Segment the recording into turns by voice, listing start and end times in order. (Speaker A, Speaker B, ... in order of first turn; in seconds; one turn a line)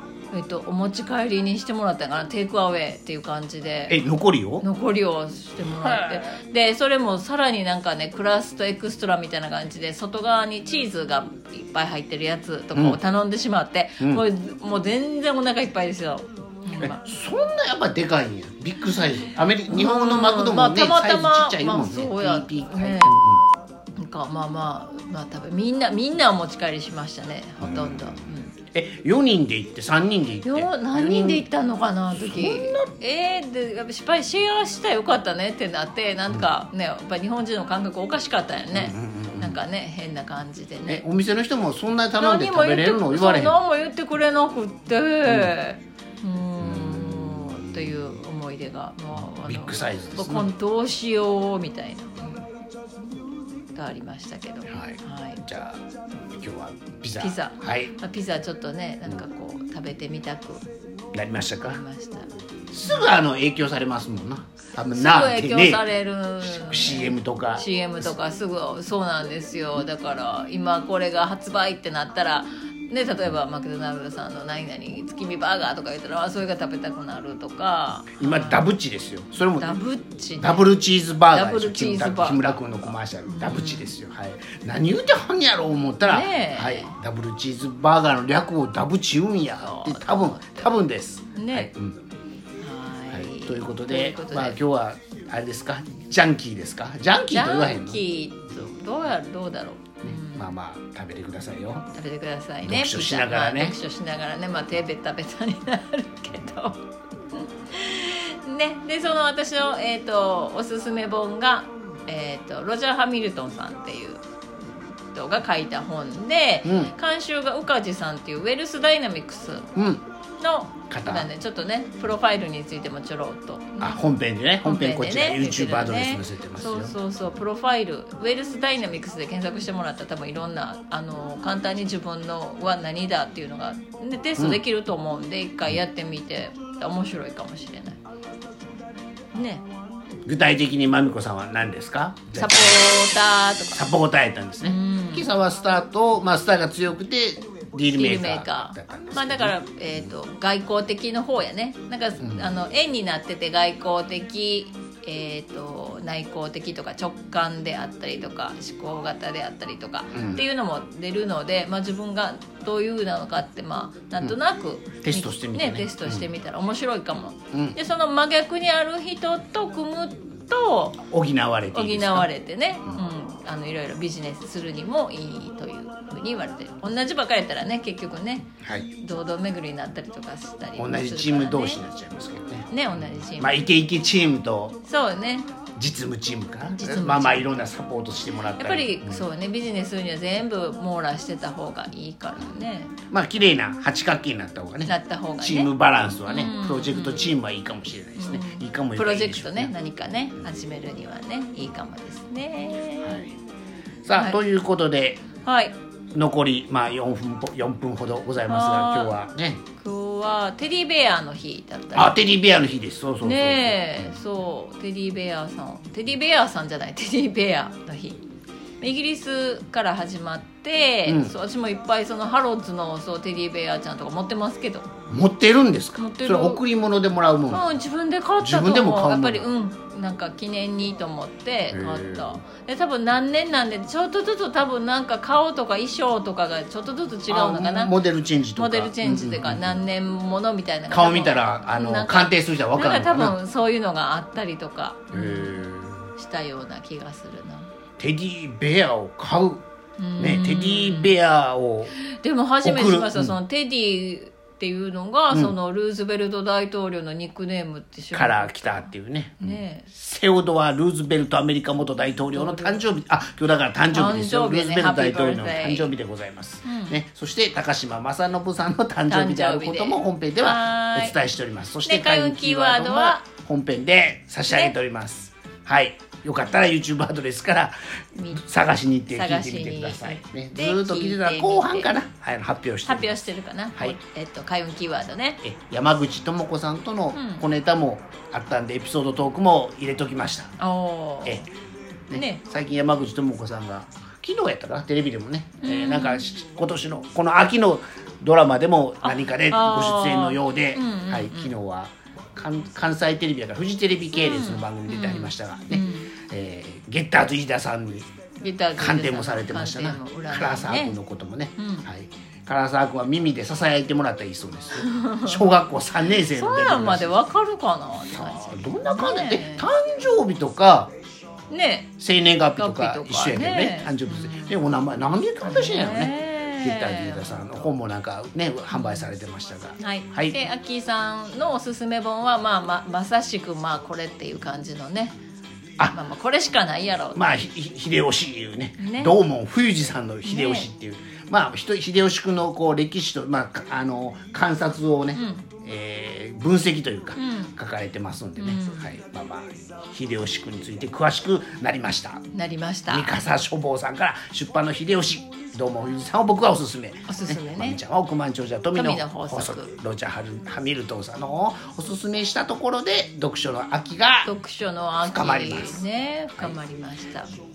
Speaker A: 0.3-4.0
Speaker B: 3.9-4.7
Speaker A: 4.6-17.0
Speaker B: 5.6-6.4
Speaker B: 16.8-23.4
Speaker A: 19.7-23.2
Speaker A: 24.0-28.6
Speaker B: 27.6-28.2
Speaker B: 28.7-31.5
Speaker A: 30.4-41.0
Speaker B: 32.1-32.9
Speaker B: 38.7-39.6
Speaker B: 40.9-43.6
Speaker A: 42.2-52.3
Speaker B: 45.3-45.5
Speaker B: 46.6-48.1
Speaker B: 49.2-50.5
Speaker A: 53.8-55.4
Speaker B: 54.7-55.8
Speaker B: 56.3-57.9
Speaker A: 57.2-60.6
Speaker B: 61.1-61.8
Speaker A: 61.6-62.3
Speaker B: 62.7-65.8
Speaker A: 64.9-78.7
Speaker B: 66.4-67.7
Speaker B: 78.2-79.8
Speaker A: 79.6-80.7
Speaker B: 80.4-92.0
Speaker A: 81.3-83.9
Speaker A: 86.0-87.0
Speaker A: 89.6-90.7
Speaker A: 91.4-91.7
Speaker A: 92.6-94.6
Speaker B: 93.1-98.0
Speaker A: 97.3-100.5
Speaker B: 100.0-101.9
Speaker A: 101.9-106.8
Speaker B: 102.6-103.8
Speaker A: 107.4-114.2
Speaker A: 115.1-119.7
Speaker B: 116.7-116.9
Speaker B: 119.8-120.0
Speaker A: 120.4-124.0
Speaker B: 120.9-121.3
Speaker B: 123.8-127.0
Speaker A: 124.6-138.0
Speaker B: 134.4-134.6
Speaker A: 139.3-139.6
Speaker B: 140.3-143.1
Speaker A: 142.3-143.8
Speaker B: 143.8-149.6
Speaker A: 144.6-145.3
Speaker A: 147.9-171.0
Speaker B: 152.2-152.5
Speaker B: 160.1-160.4
Speaker B: 165.0-166.2
Speaker B: 167.5-167.8
Speaker B: 171.1-172.3
Speaker A: 171.7-181.8
Speaker B: 178.6-178.9
Speaker B: 180.8-184.8
Speaker A: 182.7-183.6
Speaker A: 184.9-185.5
Speaker B: 185.8-189.3
Speaker A: 186.8-187.7
Speaker A: 188.6-192.9
Speaker B: 193.1-199.7
Speaker A: 194.9-195.7
Speaker A: 196.2-197.4
Speaker A: 198.2-203.2
Speaker B: 203.0-203.4
Speaker B: 204.1-205.2
Speaker A: 205.4-205.7
Speaker B: 206.1-209.6
Speaker A: 208.4-209.1
Speaker A: 209.8-212.3
Speaker B: 211.9-214.1
Speaker A: 213.2-218.2
Speaker A: 218.8-224.9
Speaker B: 221.1-221.3
Speaker B: 225.1-227.7
Speaker A: 226.0-226.6
Speaker A: 227.5-238.0
Speaker B: 228.4-229.5
Speaker B: 231.7-232.4
Speaker B: 237.3-239.8
Speaker A: 238.5-245.6
Speaker B: 240.9-243.4
Speaker B: 245.1-246.1
Speaker A: 246.2-247.7
Speaker B: 248.0-249.6
Speaker A: 250.0-251.2
Speaker B: 250.2-251.9
Speaker A: 252.0-259.9
Speaker B: 252.6-253.3
Speaker B: 258.1-283.2
Speaker A: 262.3-262.8
Speaker A: 263.9-265.9
Speaker A: 266.6-267.0
Speaker A: 269.1-271.2
Speaker A: 271.9-273.2
Speaker A: 274.5-274.7
Speaker A: 278.2-278.4
Speaker A: 279.1-281.9
Speaker A: 282.9-285.4
Speaker B: 285.4-290.6
Speaker A: 287.1-287.5
Speaker A: 290.6-291.4
Speaker B: 292.1-308.1
Speaker A: 292.1-292.4
Speaker A: 295.6-296.2
Speaker A: 299.0-301.5
Speaker A: 304.2-306.1
Speaker A: 308.4-311.0
Speaker B: 308.8-317.2
Speaker A: 311.6-311.9
Speaker A: 314.8-315.6
Speaker A: 316.2-319.7
Speaker B: 318.1-320.9
Speaker A: 321.5-321.9
Speaker B: 322.0-330.4
Speaker A: 322.6-324.6
Speaker A: 325.4-327.5
Speaker A: 328.7-329.1
Speaker A: 329.8-335.1
Speaker A: 335.9-337.3
Speaker B: 337.1-352.2
Speaker A: 338.8-339.1
Speaker A: 340.2-340.7
Speaker A: 345.1-345.5
Speaker A: 347.2-347.5
Speaker A: 348.4-348.9
Speaker A: 352.3-353.1
Speaker B: 352.9-364.3
Speaker A: 357.1-357.8
Speaker A: 358.8-359.7
Speaker A: 364.2-367.3
Speaker B: 365.0-365.8